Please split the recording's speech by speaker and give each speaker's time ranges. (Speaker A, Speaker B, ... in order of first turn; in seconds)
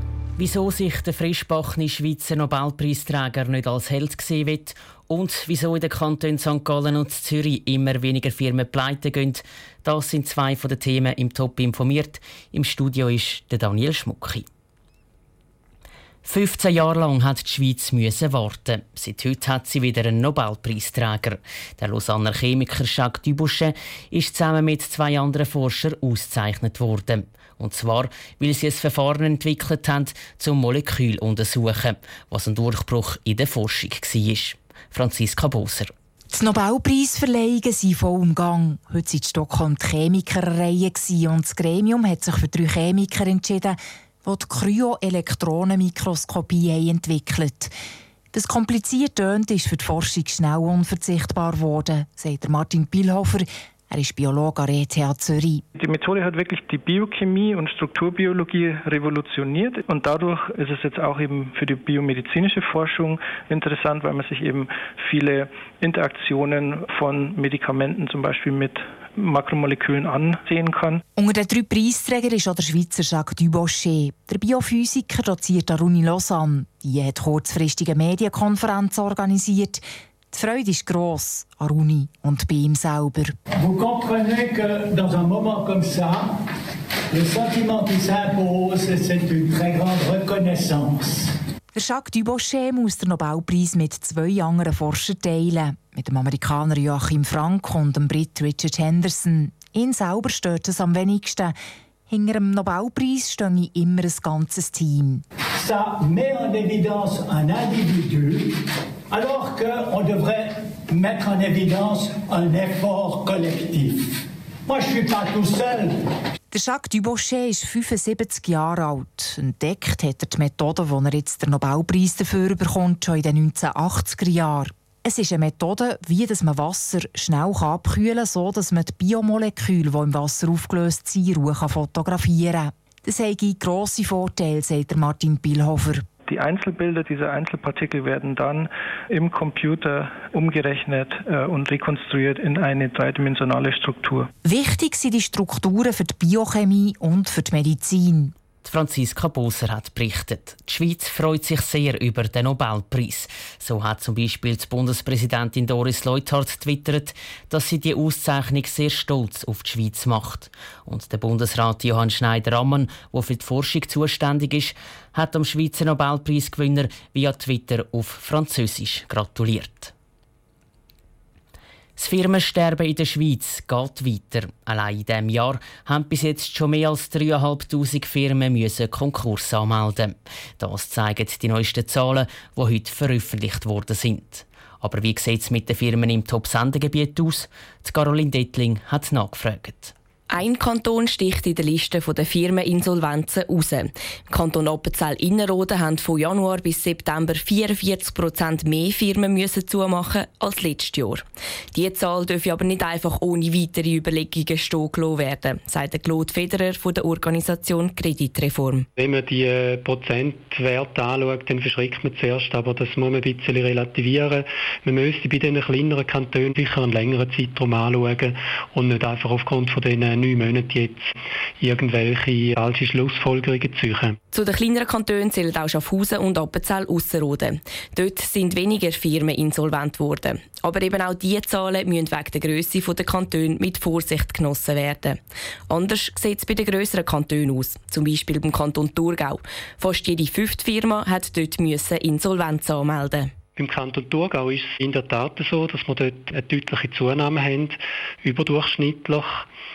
Speaker A: 0.4-14.5, 16.2-35.9, 148.6-169.9, 172.0-189.9
Speaker B: 36.3-47.7, 48.3-55.6, 71.2-79.8, 80.3-83.3, 91.7-101.5, 102.1-105.2, 116.5-136.1, 144.4-148.3
Speaker C: 55.8-71.0, 136.3-144.3
Speaker D: 83.6-86.4, 87.1-91.3, 105.5-108.6, 109.1-114.1, 114.7-116.0
Speaker E: 190.3-208.9, 224.3-235.2, 235.7-243.3
Speaker F: 209.0-221.1, 221.6-224.2, 243.6-249.5